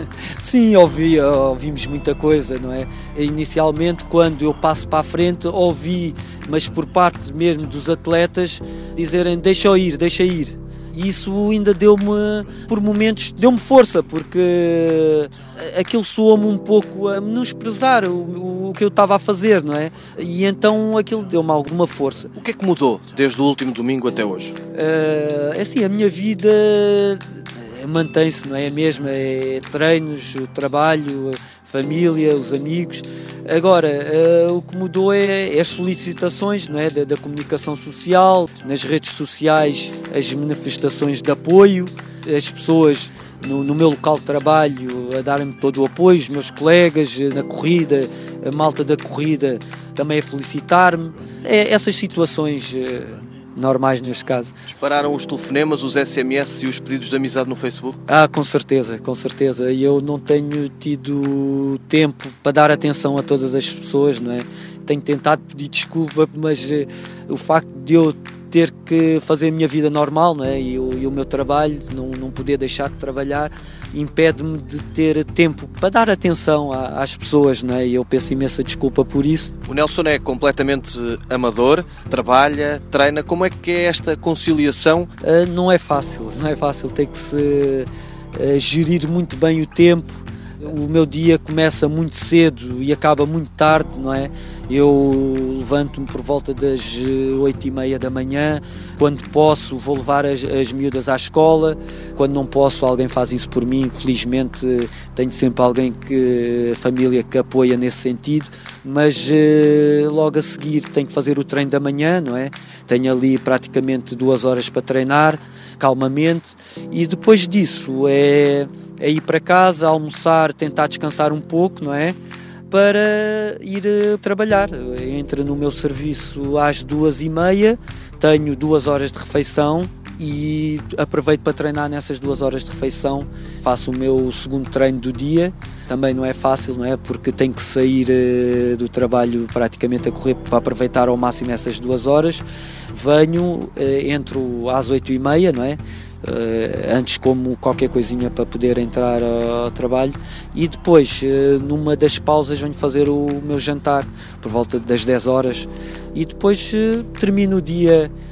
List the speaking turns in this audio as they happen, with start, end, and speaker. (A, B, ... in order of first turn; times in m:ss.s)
0:00.4-0:22.3 A
0:22.4-0:24.5 B
0:24.7-0:54.5 A
0:54.7-0:58.0 B
0:58.1-1:19.5 A
1:19.7-1:25.1 B
1:25.2-2:02.2 A
2:02.7-2:38.1 A